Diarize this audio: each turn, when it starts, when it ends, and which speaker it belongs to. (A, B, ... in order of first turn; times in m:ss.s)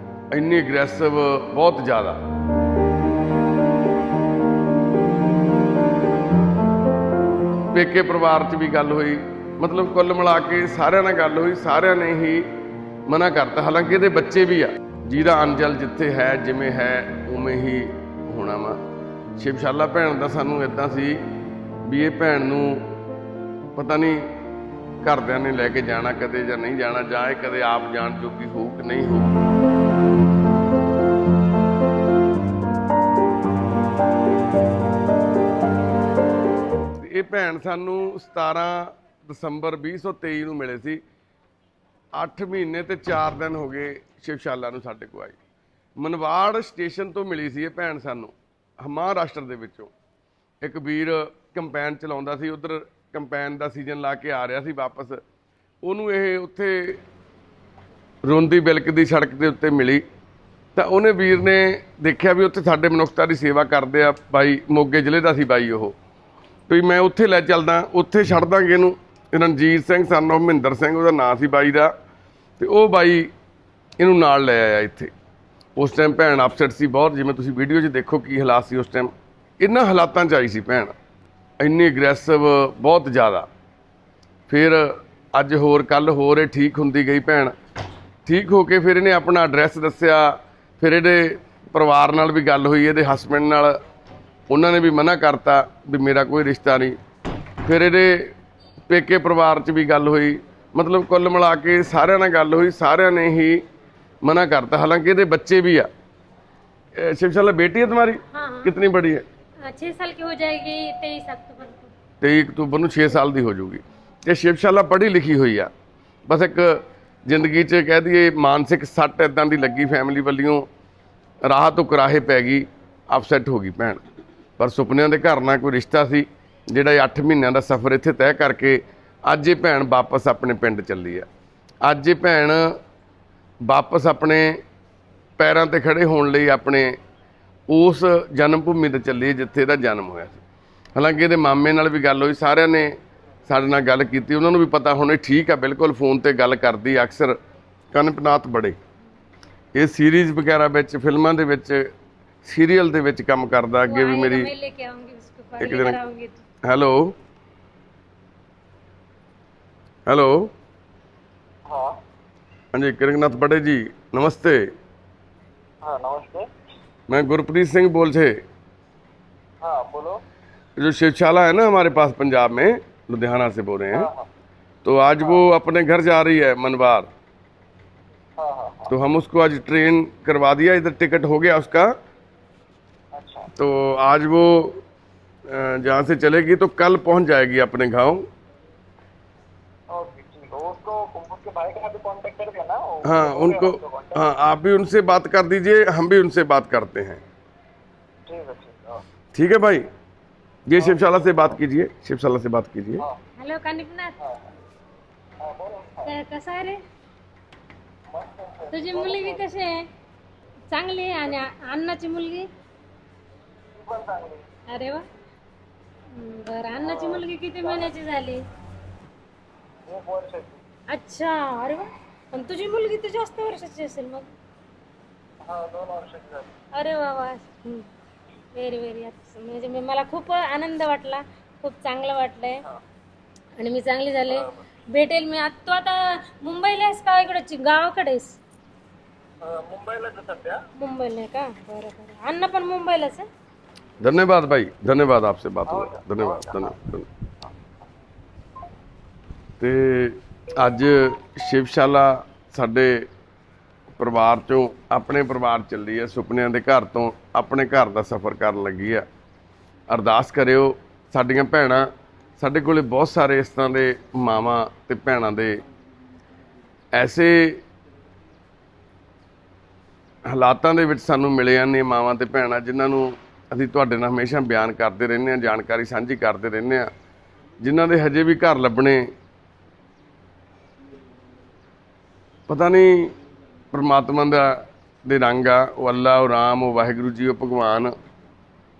0:00.3-0:02.2 A
0:07.7-0:12.5 A
0:13.1-0:18.8 A
0:19.4-0:21.2 A
0:21.9-0:22.9 A
0:23.8-0:24.3 A
0:25.0-0:29.4 A
0:37.0-0:41.0 A
0:42.2-0:45.4 A
0:46.0-0:49.9 A
0:50.6-0:55.2 A
0:55.8-0:57.0 A
0:58.2-1:00.0 A
1:00.8-1:06.0 A
1:06.7-1:11.9 A
1:12.6-1:13.3 A
1:14.0-1:15.1 A
1:15.8-1:20.9 A
1:21.6-1:23.5 A
1:24.5-1:27.6 A
1:28.3-1:33.8 A
1:34.5-1:37.0 A
1:37.6-1:38.4 A
1:38.9-1:43.6 A
1:44.2-1:45.9 A
1:47.0-1:49.2 A
1:48.3-1:48.8 B
1:49.6-1:51.9 B
1:52.2-1:55.7 A
1:56.3-2:00.7 A
2:01.4-2:04.0 A
2:04.6-2:11.3 A
2:11.8-2:12.8 A
2:13.7-2:14.6 A
2:15.4-2:17.0 A
2:17.7-2:20.4 A
2:21.0-2:23.0 A
2:23.5-2:27.4 A
2:27.9-2:28.8 A
2:29.8-2:31.9 A
2:32.4-2:34.5 A
2:33.9-2:36.4 B
2:35.6-2:36.0 A
2:36.6-2:37.2 A
2:40.1-2:40.5 A
2:41.7-2:42.0 C
2:42.7-2:44.7 A
2:45.8-2:46.5 C
2:47.1-2:48.4 A
2:49.6-2:50.2 C
2:50.8-2:54.1 A
2:53.9-2:54.3 C
2:54.8-2:57.1 A
2:58.4-2:58.9 C
2:58.9-3:01.9 A
3:03.2-3:03.5 C
3:03.6-3:04.8 A
3:05.5-3:08.3 A
3:09.9-3:14.2 C
3:13.0-3:17.2 A
3:18.3-3:19.0 C
3:19.3-3:19.9 A
3:20.7-3:23.0 A
3:23.4-3:24.2 B
3:24.2-3:24.5 C
3:25.4-3:26.1 C
3:26.0-3:26.8 B
3:28.1-3:29.4 C
3:28.7-3:29.9 B
3:30.7-3:32.5 B
3:33.8-3:34.4 C
3:34.7-3:35.0 B
3:36.1-3:38.4 B
3:36.8-3:37.3 C
3:39.9-3:40.6 C
3:40.9-3:44.3 B
3:45.4-3:46.6 C
3:46.7-3:47.9 B
3:48.5-3:52.6 B
3:53.6-3:58.4 B
3:59.4-4:00.7 C
4:00.8-4:03.3 B
4:04.0-4:07.1 A
4:05.7-4:06.7 C
4:09.6-4:13.1 A
4:14.0-4:19.1 A
4:19.9-4:25.6 A
4:27.0-4:27.6 A
4:30.3-4:36.9 A
4:37.6-4:39.1 A
4:42.5-4:43.2 A
4:43.7-4:48.0 A